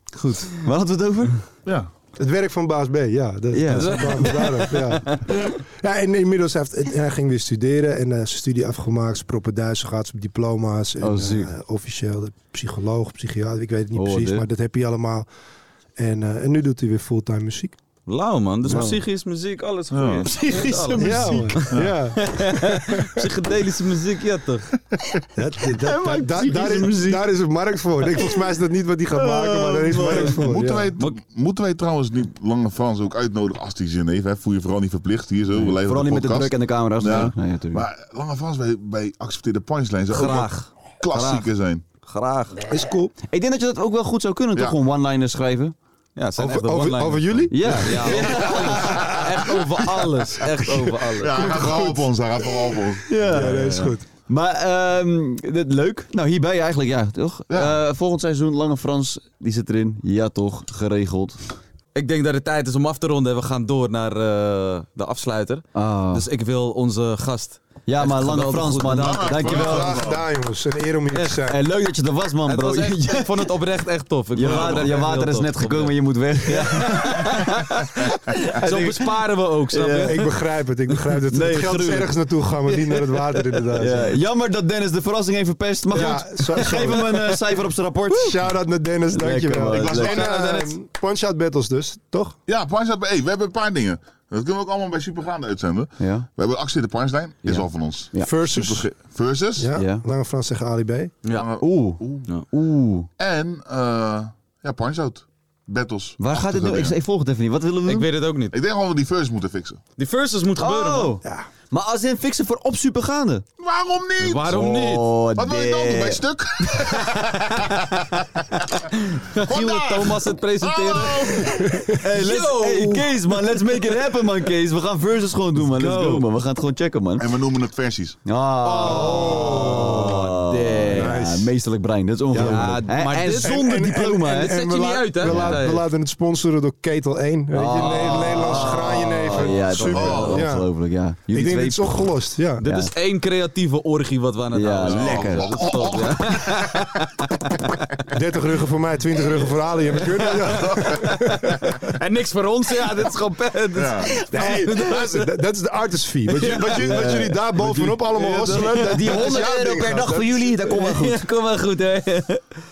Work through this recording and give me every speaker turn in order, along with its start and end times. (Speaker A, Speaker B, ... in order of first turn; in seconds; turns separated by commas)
Speaker A: 0.1-1.4, Speaker B: 1.6-1.9, Speaker C: 2.2-15.3, Speaker A: 3.5-4.0, Speaker D: 3.8-5.3, Speaker A: 11.0-11.5, Speaker A: 14.0-14.5, Speaker C: 16.0-17.8, Speaker D: 18.1-24.7, Speaker C: 18.7-19.0, Speaker B: 19.9-20.3, Speaker A: 20.3-21.6, Speaker C: 20.9-23.3, Speaker C: 25.4-30.9, Speaker A: 25.7-27.2, Speaker A: 29.1-30.4, Speaker B: 30.4-41.8, Speaker A: 35.5-37.9, Speaker D: 40.1-41.5, Speaker D: 42.1-42.6, Speaker C: 42.7-43.1, Speaker A: 43.3-45.8, Speaker D: 46.2-51.6, Speaker C: 46.4-50.1, Speaker A: 47.5-48.9, Speaker B: 51.1-53.1, Speaker C: 51.4-54.0, Speaker A: 53.1-61.4, Speaker B: 57.5-57.8, Speaker D: 62.0-69.4, Speaker A: 65.7-66.3, Speaker A: 67.9-70.0, Speaker B: 68.9-70.2, Speaker C: 69.4-71.6, Speaker A: 71.5-73.5, Speaker D: 72.5-76.0, Speaker A: 74.3-77.8, Speaker D: 76.5-80.2, Speaker A: 78.5-79.0, Speaker A: 79.7-80.2, Speaker C: 80.0-84.2, Speaker A: 81.3-82.1, Speaker A: 83.7-88.4, Speaker C: 85.9-92.4, Speaker A: 89.1-90.2, Speaker B: 89.7-90.3, Speaker D: 90.0-90.7, Speaker B: 92.5-99.7, Speaker A: 96.0-96.3, Speaker A: 97.4-98.3, Speaker C: 98.2-98.9, Speaker C: 99.6-101.2, Speaker A: 99.8-100.0, Speaker B: 101.3-102.3, Speaker A: 101.6-103.1, Speaker B: 103.2-107.0, Speaker A: 106.2-108.1, Speaker D: 107.9-108.5, Speaker B: 108.5-109.8, Speaker D: 110.0-111.1, Speaker A: 110.6-113.5, Speaker B: 113.6-114.7, Speaker D: 114.2-115.1, Speaker A: 114.5-116.2, Speaker B: 115.3-118.9, Speaker D: 119.2-123.2, Speaker B: 119.4-121.7, Speaker C: 121.4-122.0, Speaker A: 122.0-127.3, Speaker D: 125.6-126.2, Speaker B: 127.2-128.2, Speaker A: 128.2-134.6, Speaker D: 128.6-131.1, Speaker C: 128.8-131.5, Speaker C: 132.3-140.7, Speaker D: 132.4-133.6, Speaker D: 134.2-135.9, Speaker A: 135.2-135.6, Speaker A: 137.5-142.1, Speaker D: 138.0-140.4, Speaker B: 139.9-140.4, Speaker C: 141.3-142.6, Speaker D: 142.6-147.3, Speaker A: 142.6-142.9, Speaker A: 144.5-145.6, Speaker B: 144.8-146.9, Speaker C: 148.1-151.7, Speaker B: 150.5-151.1, Speaker D: 150.9-151.4, Speaker D: 151.9-155.3, Speaker B: 153.8-154.1, Speaker C: 154.2-160.6, Speaker D: 156.4-157.2, Speaker A: 156.8-161.2, Speaker D: 158.1-159.4, Speaker D: 160.7-162.4